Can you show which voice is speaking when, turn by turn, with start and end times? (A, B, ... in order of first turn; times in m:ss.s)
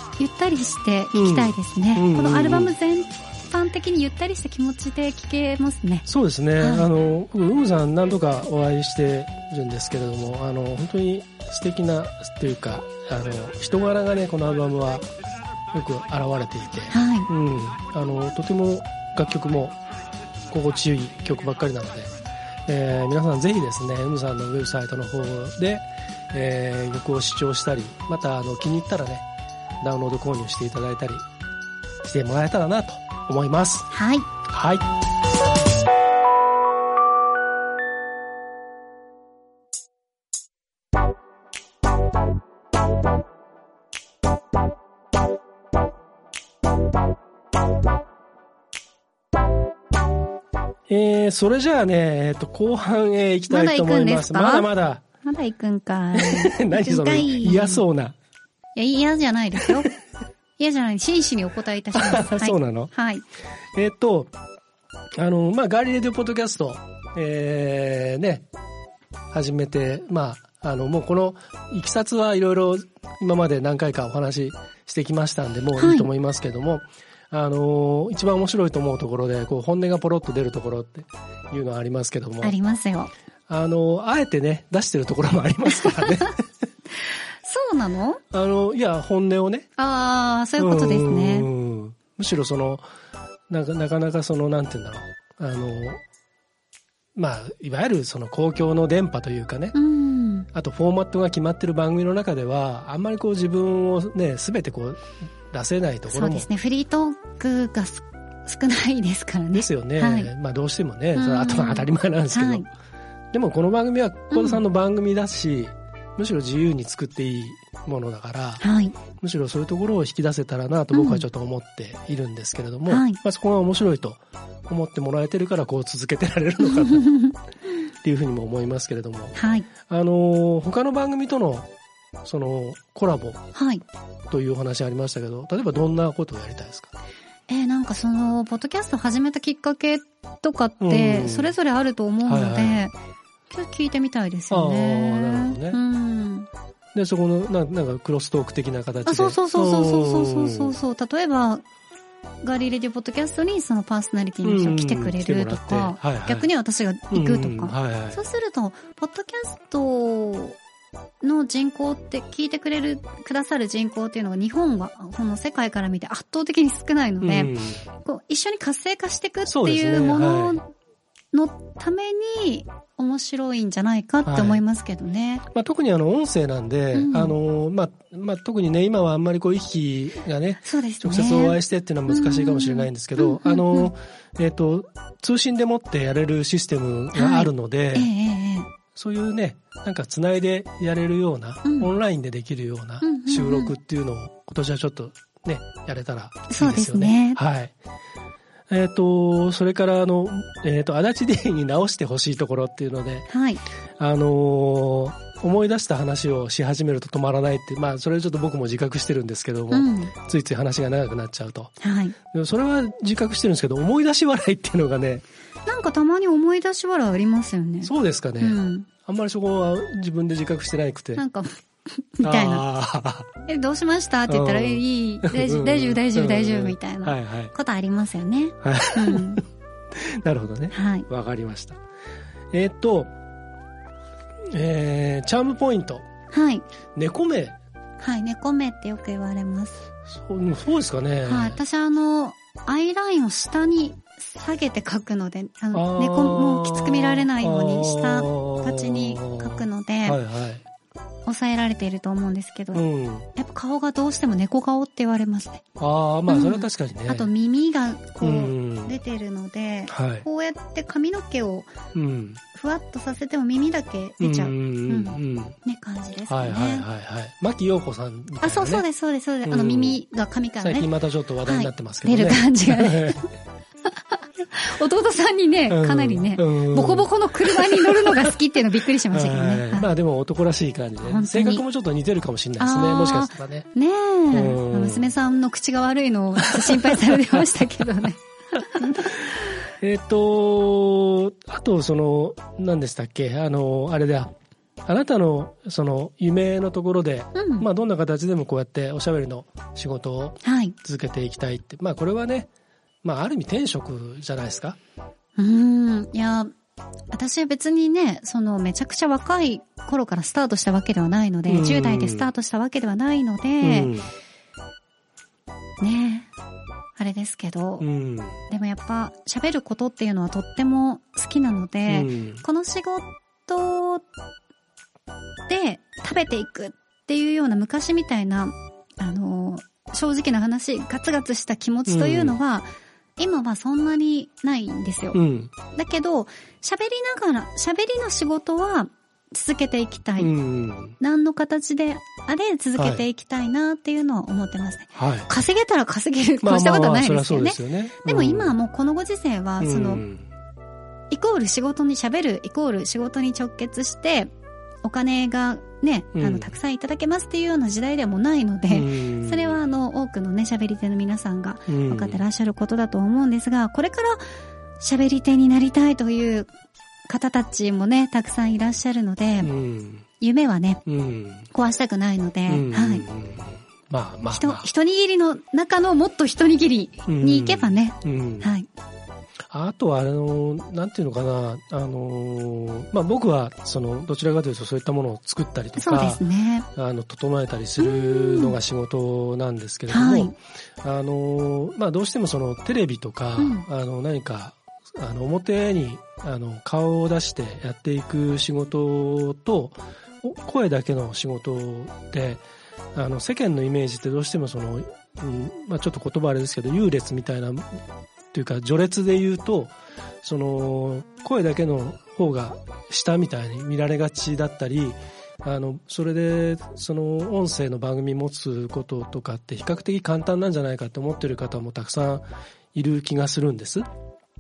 0:00.2-0:06.1 A
0:01.1-0:02.8 B
0:06.1-0:15.1 B
0:06.6-0:06.9 A
0:15.7-0:19.8 B
0:16.9-0:17.3 A
0:20.5-0:22.1 B
0:22.7-0:29.3 B
0:29.8-0:31.2 B
0:32.0-0:33.9 B
0:33.9-0:34.3 A
0:34.5-0:34.9 B
0:50.9-0:55.0 B
0:53.5-0:54.7 A
0:55.2-0:57.8 A
0:56.1-0:58.2 B
0:58.8-0:59.9 A
1:00.6-1:03.2 A
1:02.0-1:02.9 B
1:03.8-1:04.3 B
1:05.2-1:08.5 B
1:09.3-1:22.6 B
1:15.8-1:16.1 A
1:22.4-1:23.1 A
1:23.5-1:26.4 B
1:26.0-1:26.3 A
1:27.4-1:28.2 A
1:28.3-1:29.7 B
1:29.8-1:31.5 A
1:30.6-1:32.8 B
1:33.5-1:36.0 B
1:37.2-1:39.8 B
1:39.7-1:40.5 A
1:40.5-1:46.5 B
1:46.1-1:50.3 A
1:49.5-1:52.6 B
1:51.2-1:52.7 A
1:53.3-1:58.6 B
1:54.3-1:54.6 A
1:58.6-1:59.0 A
1:59.2-2:07.1 B
2:00.9-2:01.2 A
2:02.9-2:03.2 A
2:06.6-2:07.4 A
2:08.0-2:11.7 B
2:09.4-2:09.7 A
2:12.2-2:13.4 B
2:13.6-2:13.8 A
2:14.3-2:16.9 B
2:17.5-2:23.0 A
2:20.8-2:21.5 B
2:22.2-2:22.8 B
2:23.5-2:26.5 A
2:24.5-2:25.8 B
2:27.0-2:30.8 B
2:29.0-2:31.6 A
2:32.4-2:40.6 A
2:34.4-2:36.5 B
2:37.1-2:38.2 B
2:41.2-2:50.7 A
2:47.2-2:47.8 B
2:49.5-2:50.6 B
2:51.3-2:55.4 A
2:54.2-2:54.6 B
2:55.5-3:08.1 B
2:56.9-2:57.4 A
3:00.6-3:03.9 A
3:07.2-3:08.7 A
3:09.0-3:17.7 B
3:11.6-3:11.9 A
3:13.0-3:13.7 A
3:16.5-3:17.4 A
3:18.7-3:23.3 B
3:23.3-3:23.6 A
3:24.0-3:31.7 B
3:29.7-3:30.1 A
3:31.8-3:32.2 A
3:32.3-3:35.2 B
3:35.7-3:38.9 A
3:37.8-3:41.2 B
3:41.2-3:42.6 A
3:42.2-3:43.3 B
3:43.4-3:49.4 A
3:44.3-3:47.5 B
3:48.6-3:49.4 B
3:50.0-3:51.8 B
3:50.7-3:51.1 A
3:52.5-3:53.1 B
3:54.5-3:56.0 B
3:56.3-3:56.6 A
3:57.0-3:57.6 B
3:58.0-3:59.9 A
4:00.1-4:01.6 B
4:01.3-4:10.2 A
4:05.7-4:10.6 B
4:11.3-4:12.8 A
4:12.7-4:13.3 B
4:13.4-4:15.6 A
4:15.8-4:17.3 B
4:16.3-4:21.7 A
4:18.2-4:19.0 B
4:19.9-4:20.2 B
4:22.0-4:22.4 B
4:22.5-4:26.9 A
4:24.2-4:25.6 B
4:26.3-4:28.8 B
4:28.4-4:30.9 A
4:29.5-4:30.0 B
4:30.6-4:33.2 B
4:31.4-4:33.2 A
4:34.1-4:39.9 A
4:35.7-4:38.4 B
4:39.1-4:43.7 B
4:41.0-4:41.6 A
4:42.6-4:49.2 A
4:44.3-4:45.1 B
4:46.4-4:47.5 B
4:48.8-4:54.3 B
4:54.8-5:02.5 B
4:57.4-4:57.7 A
5:00.4-5:00.8 A
5:03.0-5:04.8 B
5:05.4-5:06.5 A
5:07.1-5:13.9 A
5:11.5-5:12.3 B
5:13.6-5:14.1 B
5:15.8-5:16.3 A
5:17.0-5:17.9 A
5:17.8-5:18.4 B
5:18.5-5:24.0 A
5:21.9-5:22.4 B
5:25.5-5:40.3 A
5:31.9-5:32.4 B
5:35.1-5:35.5 B
5:40.2-5:41.0 B
5:41.0-5:50.0 A
5:42.8-5:43.0 B
5:45.0-5:45.3 B
5:46.4-5:48.6 B
5:49.6-5:50.3 B
5:51.1-5:54.3 A
5:54.8-6:04.2 A
5:56.2-5:56.6 B
5:58.7-5:59.6 B
6:01.7-6:02.2 B
6:04.8-6:06.5 A
6:07.1-6:09.5 A
6:09.4-6:10.1 B
6:10.2-6:10.8 A
6:10.9-6:11.5 B
6:11.5-6:13.1 A
6:12.5-6:14.7 B
6:14.3-6:18.7 A
6:17.1-6:18.5 B
6:19.5-6:26.2 B
6:25.8-6:26.7 A
6:26.8-6:42.4 B
6:27.8-6:28.6 A
6:29.9-6:30.4 A
6:33.4-6:33.6 A
6:43.0-6:47.8 B
6:48.3-7:03.9 B